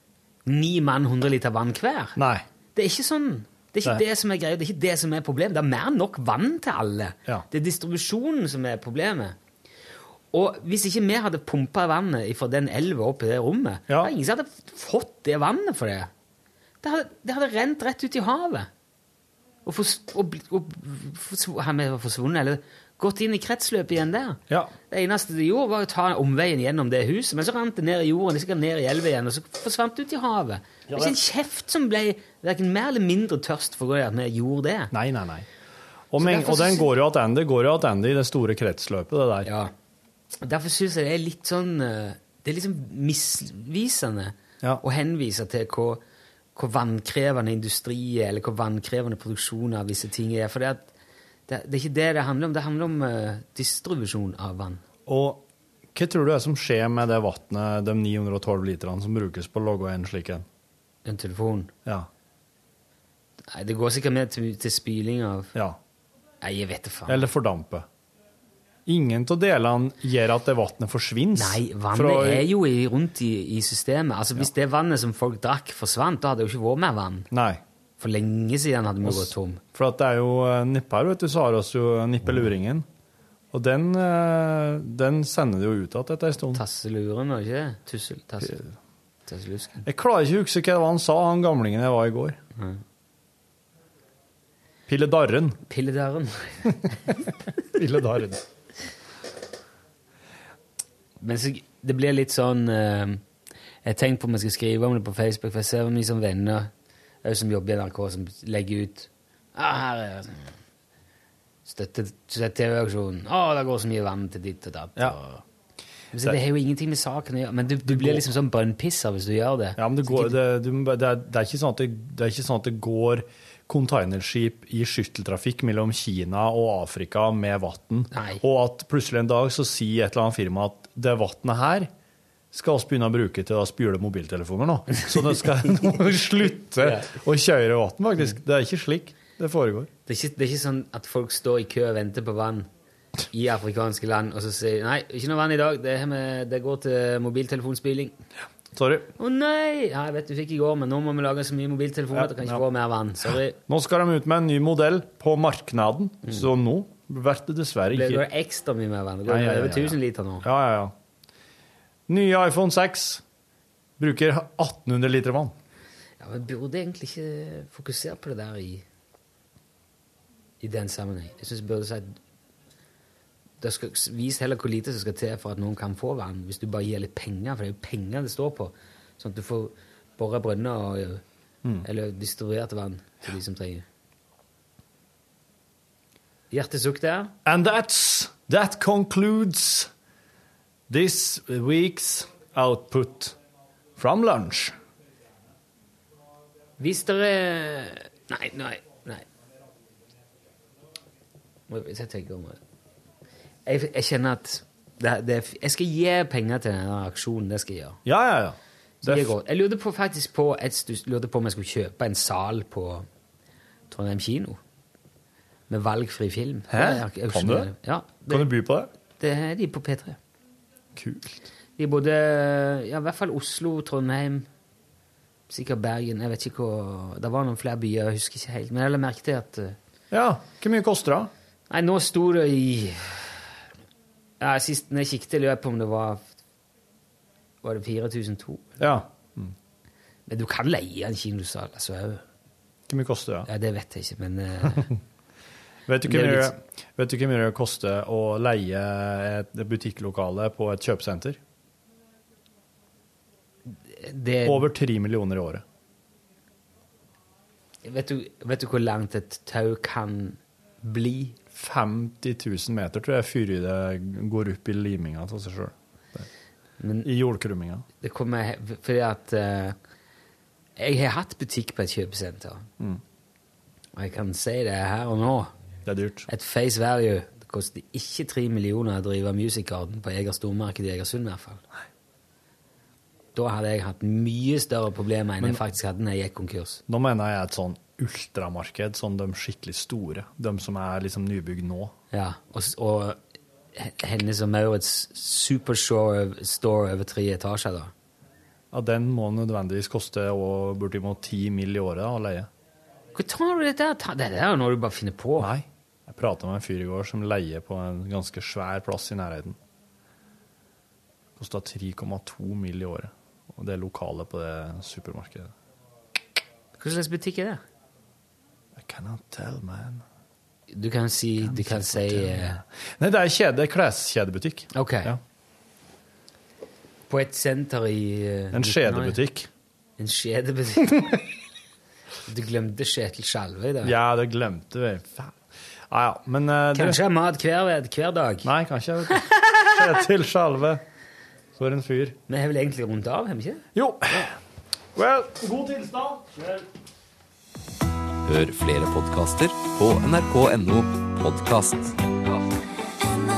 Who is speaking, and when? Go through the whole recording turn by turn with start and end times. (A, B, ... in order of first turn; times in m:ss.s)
0:00.4-0:02.2 A
0:02.2-0:02.4 B
0:02.7-0:09.3 A
0:10.3-0:16.1 A
0:16.8-0:18.7 A
0:19.6-0:34.9 A
0:30.9-0:31.2 B
0:34.9-0:35.5 B
0:36.1-0:39.5 B
0:36.2-0:36.9 A
0:39.4-0:39.7 A
0:40.4-0:46.0 A
0:46.5-0:50.9 A
0:51.5-0:54.8 A
0:55.0-1:00.4 B
1:01.0-1:01.7 A
1:03.5-1:05.5 A
1:06.4-1:07.3 A
1:07.1-1:07.9 B
1:08.8-1:12.5 B
1:11.3-1:17.3 A
1:17.3-1:17.6 B
1:18.0-1:19.6 A
1:19.0-1:22.8 B
1:23.5-1:26.6 B
1:26.5-1:28.6 A
1:29.3-1:29.8 A
1:29.8-1:32.4 B
1:34.9-1:35.6 B
1:35.7-1:37.2 A
1:37.7-1:38.4 B
1:41.2-1:43.2 A
1:43.8-1:46.7 A
1:47.2-1:50.5 A
1:51.6-1:55.4 A
1:56.1-2:00.4 A
1:57.8-1:58.3 B
1:59.8-2:11.9 B
2:08.1-2:08.4 A
2:12.5-2:19.9 B
2:16.8-2:17.1 A
2:20.0-2:22.7 A
2:23.2-2:28.1 A
2:28.7-2:29.1 B
2:29.2-2:33.6 A
2:32.1-2:32.6 B
2:33.7-2:38.2 B
2:37.9-2:40.4 A
2:39.3-2:40.9 B
2:42.1-2:43.2 B
2:44.0-2:45.5 B
2:46.2-2:48.8 A
2:50.6-2:52.2 A
2:53.6-3:01.2 A
3:01.8-3:03.8 A
3:06.5-3:07.3 A
3:07.4-3:09.9 B
3:10.9-3:13.4 B
3:14.0-3:14.7 B
3:16.8-3:19.2 A
3:21.7-3:22.6 A
3:23.6-3:28.0 A
3:28.0-3:29.3 B
3:29.0-3:33.1 A
3:33.9-3:34.6 A
3:35.7-3:38.5 A
3:36.7-3:37.7 B
3:38.3-3:38.9 B
3:39.2-3:40.2 A
3:41.0-3:41.4 B
3:41.8-3:44.5 A
3:45.5-3:49.8 A
3:50.1-3:51.3 B
3:51.7-3:53.4 A
3:54.4-3:56.3 A
3:57.6-3:58.7 A
3:58.8-3:59.5 B
4:00.3-4:02.2 A
4:02.9-4:03.5 B
4:03.5-4:04.9 A
4:05.9-4:11.4 B
4:06.0-4:06.5 A
4:13.7-4:14.7 A
4:14.4-4:15.6 B
4:17.8-4:21.4 A
4:21.5-4:26.3 B
4:26.8-4:27.1 A
4:27.0-4:27.8 B
4:28.0-4:29.8 A
4:30.8-4:32.7 A
4:34.0-4:35.5 A
4:35.8-4:36.3 B
4:36.3-4:41.6 A
4:43.3-4:46.8 A
4:46.9-4:51.9 B
4:52.1-4:53.2 A
4:53.8-4:57.9 A
4:58.7-5:02.5 B
5:03.1-5:05.5 A
5:05.4-5:09.6 B
5:11.4-5:15.5 B
5:16.8-5:17.6 A
5:18.8-5:20.0 B
5:20.7-5:22.6 A
5:21.4-5:25.2 B
5:24.7-5:25.1 A
5:27.1-5:29.2 A
5:28.5-5:29.5 B
5:30.0-5:31.2 A
5:32.2-5:33.9 A
5:33.8-5:35.4 B
5:35.9-5:37.0 B
5:36.7-5:38.5 A
5:38.4-5:40.8 B
5:41.6-5:42.2 B
5:42.3-5:43.6 A
5:43.7-5:44.4 B
5:44.9-5:46.3 B
5:48.2-5:52.0 C